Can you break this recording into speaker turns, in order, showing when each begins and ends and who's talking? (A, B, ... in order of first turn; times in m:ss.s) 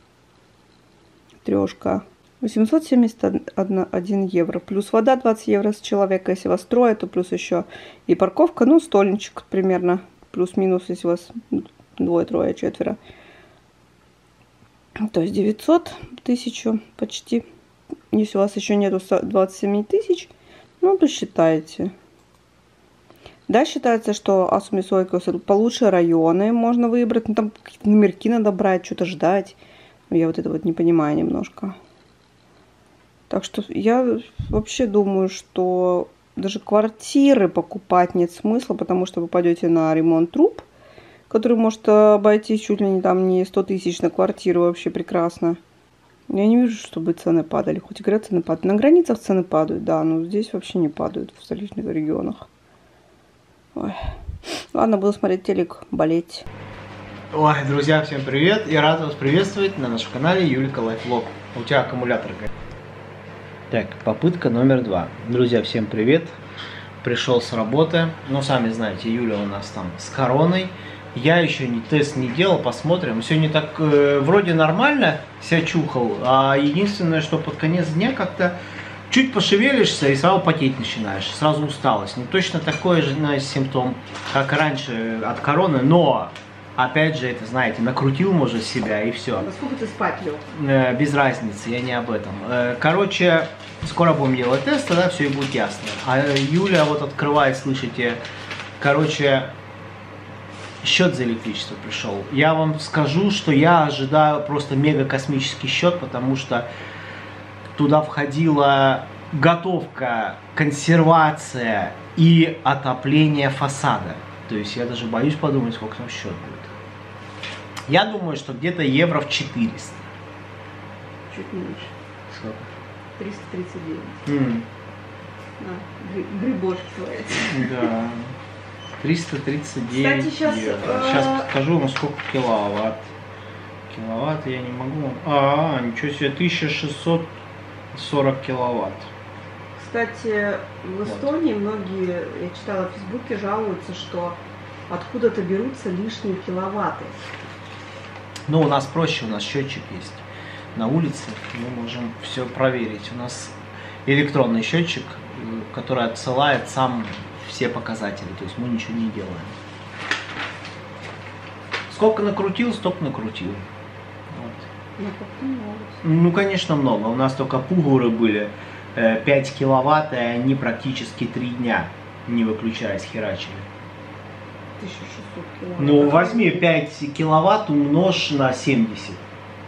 0:01.4-0:13.0 A
0:15.0-0:17.4 A
0:18.1-0:21.9 A
0:23.5-0:29.6 A
0:30.1-0:31.7 A
0:33.3-0:40.6 A
0:41.3-0:45.6 A
0:46.3-0:52.5 A
0:54.7-0:56.5 A
0:57.3-1:02.5 B
1:03.7-1:06.4 B
1:07.0-1:18.6 B
1:19.1-1:29.5 B
1:29.4-1:30.4 A
1:30.5-1:38.2 B
1:38.8-1:39.5 B
1:40.8-1:46.6 B
1:47.7-1:56.7 B
1:57.9-2:00.1 B
2:01.3-2:01.9 A
2:02.3-2:02.7 B
2:03.2-2:04.3 A
2:04.2-2:04.7 B
2:05.6-2:07.9 A
2:07.4-2:08.3 B
2:09.0-2:13.1 B
2:09.9-2:11.5 A
2:13.9-2:17.3 B
2:17.9-2:19.1 B
2:19.7-2:27.2 A
2:21.0-2:21.3 B
2:28.5-2:39.5 B
2:41.9-2:43.7 B
2:44.3-2:44.7 B
2:45.0-2:46.0 A
2:46.0-2:53.7 B
2:54.8-2:56.6 A
2:55.8-2:59.2 B